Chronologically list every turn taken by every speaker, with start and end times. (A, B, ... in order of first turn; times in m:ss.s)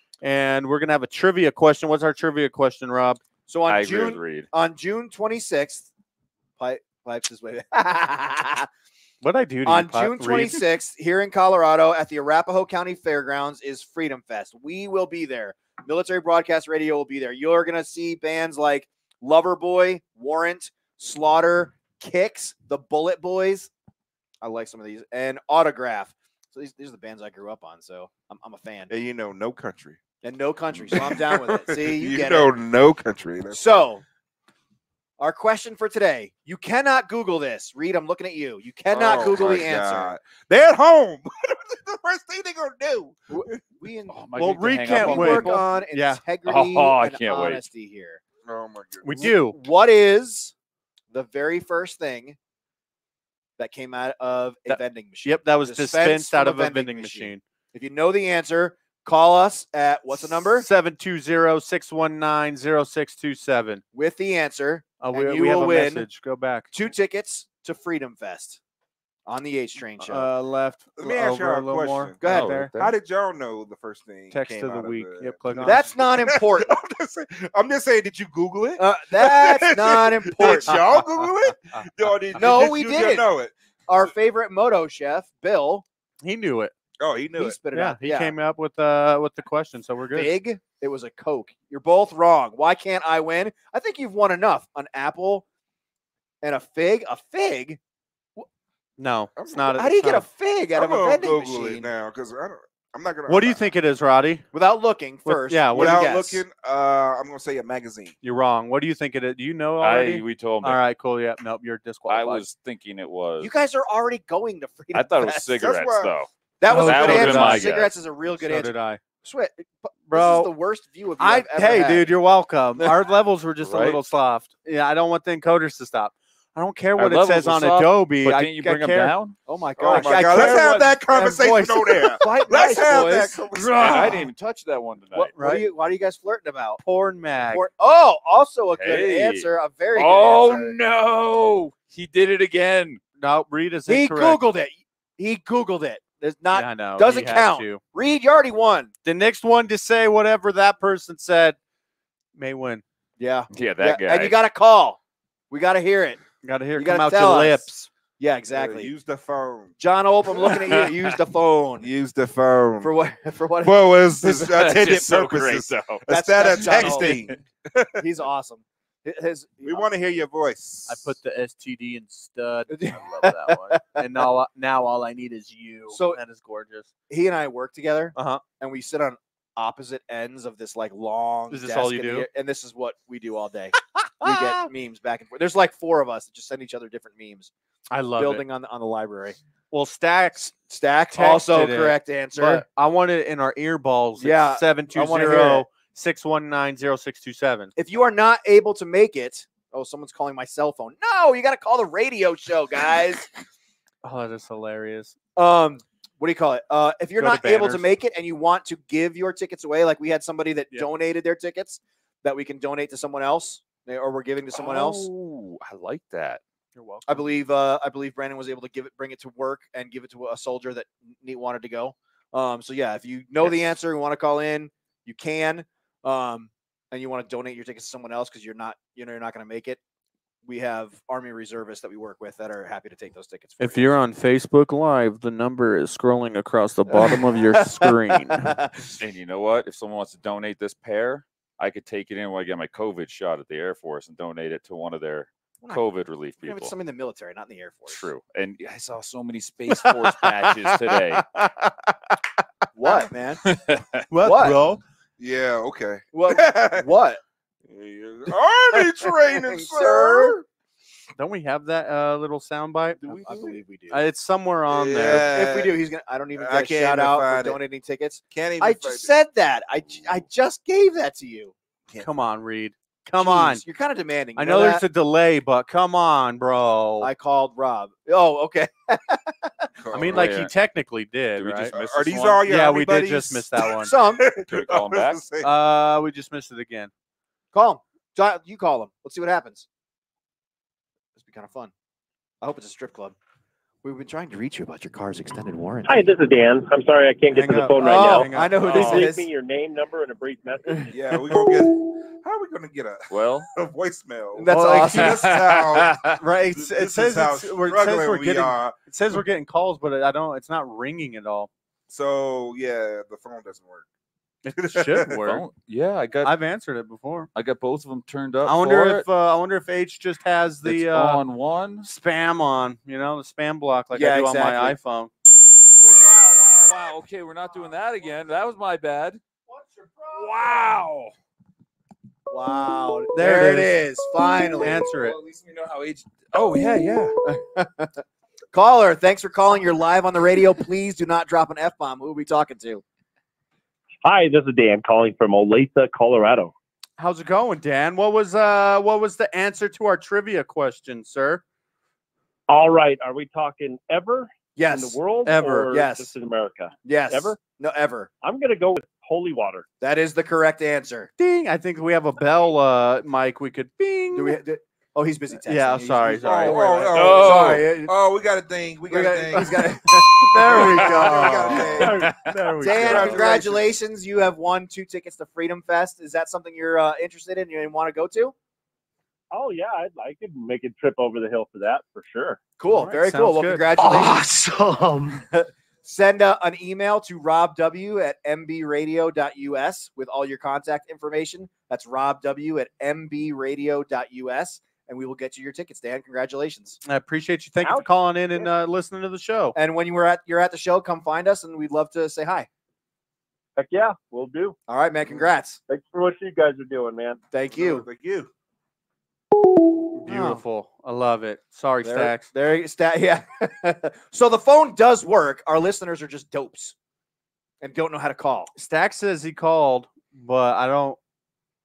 0:00.2-0:03.2 A
0:03.5-0:05.9 B
0:03.6-0:04.5 C
0:06.6-0:08.7 B
0:09.2-0:10.6 A
0:09.6-0:23.7 B
0:24.4-0:28.9 B
0:28.9-0:30.0 D
0:30.2-0:32.5 B
0:30.7-0:33.6 D
0:33.5-0:34.0 B
0:35.2-0:40.2 B
0:38.9-0:43.4 D
0:43.3-0:44.2 B
0:44.1-0:45.6 C
0:44.3-0:46.2 A
0:44.8-0:48.2 B
0:46.4-0:47.6 C
0:48.4-0:49.3 D
0:49.0-0:49.6 A
0:49.5-0:50.5 B
0:51.1-0:52.4 B
0:53.6-1:00.7 B
0:54.7-0:57.4 A
1:00.5-1:03.8 A
1:03.9-1:06.0 B
1:05.0-1:06.7 A
1:06.7-1:08.6 B
1:09.2-1:10.3 B
1:10.0-1:12.7 A
1:10.9-1:12.2 D
1:12.2-1:12.5 B
1:12.2-1:12.9 C
1:12.8-1:23.5 D
1:14.3-1:15.9 A
1:15.6-1:16.7 B
1:18.8-1:21.1 B
1:20.4-1:20.8 A
1:22.3-1:23.3 B
1:23.9-1:25.8 B
1:26.2-1:26.7 A
1:27.0-1:27.6 D
1:27.4-1:28.3 B
1:27.7-1:30.3 A
1:30.1-1:35.4 B
1:36.4-1:37.8 B
1:39.0-1:40.2 A
1:39.3-1:39.7 D
1:39.7-1:41.9 B
1:40.7-1:43.8 D
1:43.3-1:44.4 A
1:44.5-1:46.4 B
1:45.2-1:46.2 A
1:45.7-1:48.1 D
1:48.2-1:52.4 A
1:49.8-1:50.8 C
1:52.0-1:53.5 C
1:53.4-1:55.5 B
1:54.9-1:57.9 C
1:55.6-1:56.1 D
1:56.6-2:02.1 B
1:56.6-1:57.8 A
1:58.4-1:59.0 A
2:00.1-2:00.5 A
2:01.2-2:09.1 A
2:03.6-2:04.0 C
2:07.0-2:09.4 C
2:09.4-2:10.8 B
2:09.8-2:14.2 D
2:09.9-2:12.9 A
2:12.2-2:13.4 B
2:13.5-2:14.3 A
2:13.7-2:15.4 C
2:15.1-2:16.8 B
2:15.3-2:15.6 A
2:16.8-2:17.6 A
2:17.5-2:20.8 B
2:18.7-2:23.0 C
2:23.2-2:24.4 A
2:23.9-2:28.9 B
2:26.5-2:27.8 A
2:29.0-2:31.6 A
2:32.4-2:32.8 A
2:33.2-2:35.0 B
2:33.5-2:34.4 C
2:35.5-2:36.2 B
2:36.4-2:37.9 A
2:36.8-2:37.6 B
2:38.2-2:38.9 B
2:38.5-2:39.7 D
2:39.8-2:41.9 B
2:40.4-2:41.0 C
2:41.8-2:42.9 D
2:42.8-2:44.3 B
2:43.6-2:47.9 D
2:44.4-2:46.0 C
2:46.1-2:47.2 B
2:46.6-2:47.1 C
2:48.0-2:49.9 B
2:49.6-2:51.2 D
2:50.9-2:56.9 A
2:52.7-2:54.0 B
2:55.9-2:56.2 B
2:57.1-3:07.5 B
2:58.1-2:58.4 A
3:01.5-3:02.2 A
3:04.2-3:04.6 A
3:07.9-3:08.4 A
3:08.2-3:09.4 B
3:09.7-3:10.6 A
3:10.5-3:12.6 B
3:11.1-3:17.7 A
3:14.2-3:15.6 B
3:17.8-3:23.3 B
3:24.0-3:25.1 A
3:25.4-3:35.1 B
3:27.2-3:27.8 A
3:34.5-3:36.4 C
3:36.7-3:37.2 A
3:37.0-3:49.8 B
3:50.4-3:53.9 B
3:53.6-3:58.5 A
3:56.9-3:58.9 B
3:59.0-4:06.7 C
4:06.4-4:08.1 B
4:07.9-4:11.2 C
4:09.8-4:11.9 A
4:12.8-4:13.4 B
4:13.5-4:14.0 C
4:14.1-4:14.8 A
4:14.2-4:14.6 B
4:15.2-4:16.9 D
4:16.1-4:17.2 B
4:17.7-4:20.4 D
4:18.7-4:20.4 B
4:21.2-4:23.0 A
4:23.1-4:24.0 B
4:23.1-4:23.6 D
4:23.9-4:25.3 A
4:24.7-4:25.8 D
4:25.1-4:31.5 B
4:26.4-4:27.6 D
4:28.3-4:29.1 D
4:32.0-4:33.6 A
4:33.2-4:34.8 B
4:34.4-4:37.1 A
4:37.0-4:39.7 B
4:39.8-4:40.3 D
4:39.9-4:41.7 A
4:40.0-4:40.5 C
4:41.4-4:42.5 C
4:41.7-4:45.5 D
4:42.4-4:43.9 A
4:43.8-4:44.2 B
4:44.5-4:45.3 C
4:45.4-4:46.9 A
4:47.5-4:49.7 B
4:51.2-4:51.7 B
4:52.4-4:53.2 B
4:53.8-4:56.1 B
4:55.8-5:00.9 E
4:57.4-4:59.1 A
4:57.4-4:59.3 B
4:58.6-4:59.0 C
5:00.9-5:09.2 D
5:03.1-5:03.5 C
5:04.3-5:05.2 B
5:04.5-5:05.2 A
5:05.2-5:06.1 C
5:06.2-5:11.5 A
5:11.9-5:13.8 D
5:14.4-5:15.5 A
5:14.6-5:15.2 D
5:15.2-5:16.3 C
5:16.2-5:17.3 A
5:17.3-5:19.1 C
5:18.4-5:21.2 A
5:20.6-5:21.9 C
5:21.8-5:25.1 A
5:23.9-5:24.8 B
5:25.8-5:29.2 C
5:32.3-5:34.9 B
5:33.1-5:34.1 A
5:34.6-5:35.2 A
5:35.3-5:37.0 C
5:36.5-5:42.8 B
5:44.0-5:46.5 E
5:47.0-5:51.4 A
5:52.5-5:57.4 E
5:54.6-5:55.0 B
5:55.2-5:55.7 A
5:55.7-5:56.1 B
5:56.8-5:58.1 B
5:58.2-5:59.6 E
5:59.8-6:01.1 B
6:01.2-6:04.4 A
6:04.1-6:07.9 B
6:05.4-6:06.9 A
6:06.2-6:09.8 D
6:06.9-6:07.7 C
6:08.9-6:11.9 B
6:09.3-6:13.6 A
6:10.4-6:12.2 D
6:10.8-6:11.3 C
6:12.0-6:13.3 C
6:12.6-6:18.3 B
6:19.3-6:22.4 E
6:22.6-6:24.2 B
6:22.6-6:23.6 A
6:25.3-6:36.8 B
6:36.8-6:39.5 A
6:37.6-6:38.5 E
6:39.5-6:42.5 B
6:43.6-6:44.6 E
6:44.7-6:45.6 B
6:45.1-6:47.2 E
6:47.3-6:47.9 B
6:47.5-6:48.3 D
6:50.0-6:52.2 A
6:50.1-6:50.4 B
6:51.8-6:56.7 B
6:57.6-6:58.5 B
6:58.5-7:01.0 A